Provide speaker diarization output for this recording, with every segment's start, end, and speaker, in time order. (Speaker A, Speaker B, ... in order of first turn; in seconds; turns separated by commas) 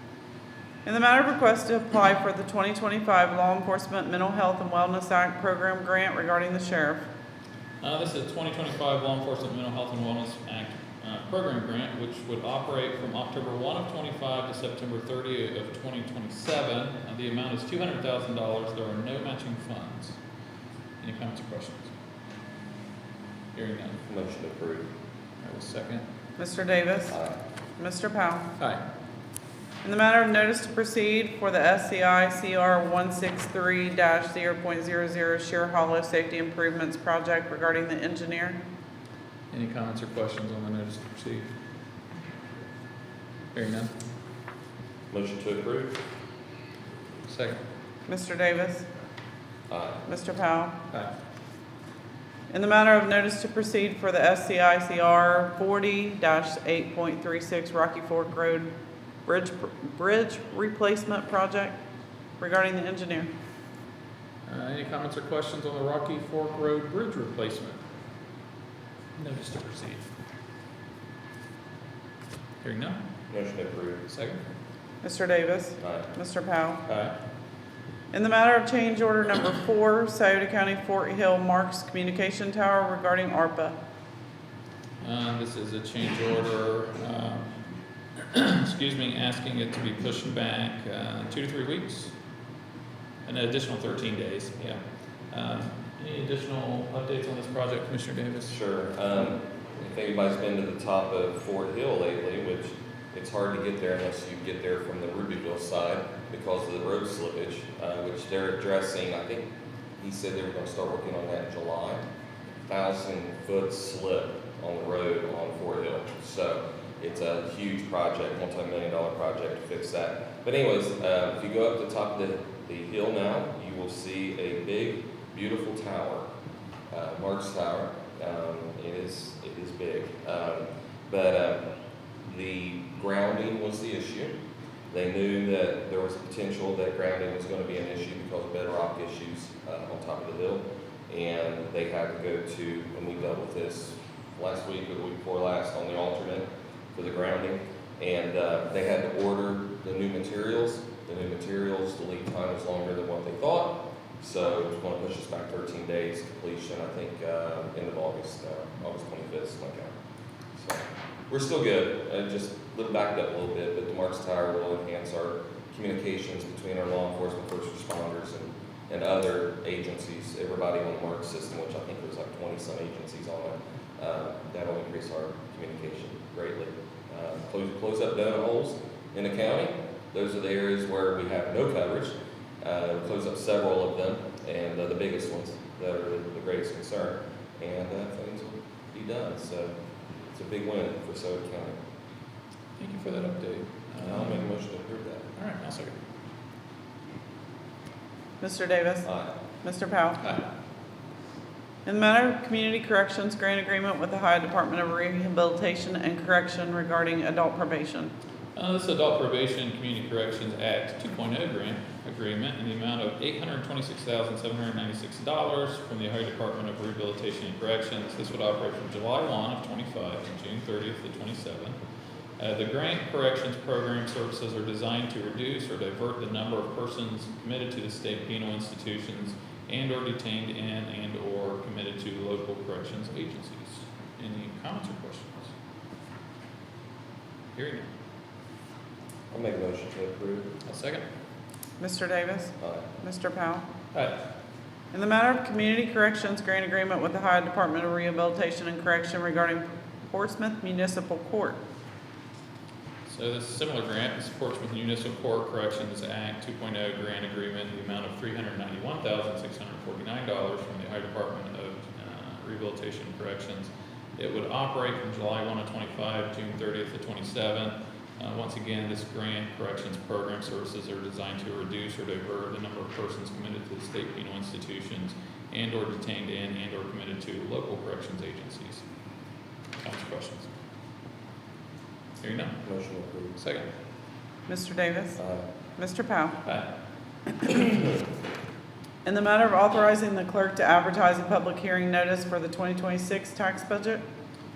Speaker A: 0.8-7.1, Speaker B: 7.8-20.2, Speaker B: 21.0-21.9, Speaker B: 23.5-24.0, Speaker C: 24.1-24.9, Speaker B: 25.4-26.0, Speaker A: 26.4-27.1, Speaker C: 27.1-27.4, Speaker A: 27.8-28.5, Speaker A: 29.8-38.6, Speaker B: 39.5-41.5, Speaker B: 43.5-43.9, Speaker C: 45.1-46.0, Speaker B: 47.3-47.6, Speaker A: 48.1-48.9, Speaker C: 49.7-50.0, Speaker A: 50.1-50.8, Speaker A: 52.5-58.7, Speaker A: 59.3-61.8, Speaker A: 62.4-63.3, Speaker B: 64.5-67.8, Speaker B: 69.2-70.0, Speaker B: 72.6-73.0, Speaker C: 73.3-74.0, Speaker B: 74.1-74.4, Speaker A: 75.0-76.8, Speaker C: 75.8-76.1, Speaker B: 76.9-77.1, Speaker A: 78.1-83.8, Speaker B: 85.0-87.5, Speaker B: 88.2-92.1, Speaker B: 93.2-98.6, Speaker C: 98.5-112.0, Speaker C: 112.7-126.3, Speaker C: 126.9-131.7, Speaker C: 132.2-134.4, Speaker C: 134.9-159.9, Speaker C: 160.6-189.8, Speaker C: 190.3-191.8, Speaker B: 192.8-194.5, Speaker C: 194.0-195.3, Speaker B: 195.4-196.0, Speaker A: 198.4-199.1, Speaker A: 199.6-200.2, Speaker A: 201.9-208.1, Speaker B: 208.6-221.8, Speaker B: 222.4-235.5, Speaker B: 237.6-237.9, Speaker C: 239.3-240.5, Speaker B: 240.7-241.0, Speaker A: 241.8-243.7, Speaker C: 242.6-242.9, Speaker A: 244.9-251.6, Speaker B: 253.1-278.8, Speaker B: 279.8-280.5, Speaker B: 282.2-282.6, Speaker C: 282.6-283.4, Speaker B: 283.4-283.7, Speaker A: 284.5-285.2, Speaker C: 285.2-285.5, Speaker A: 285.8-286.4, Speaker A: 289.1-294.0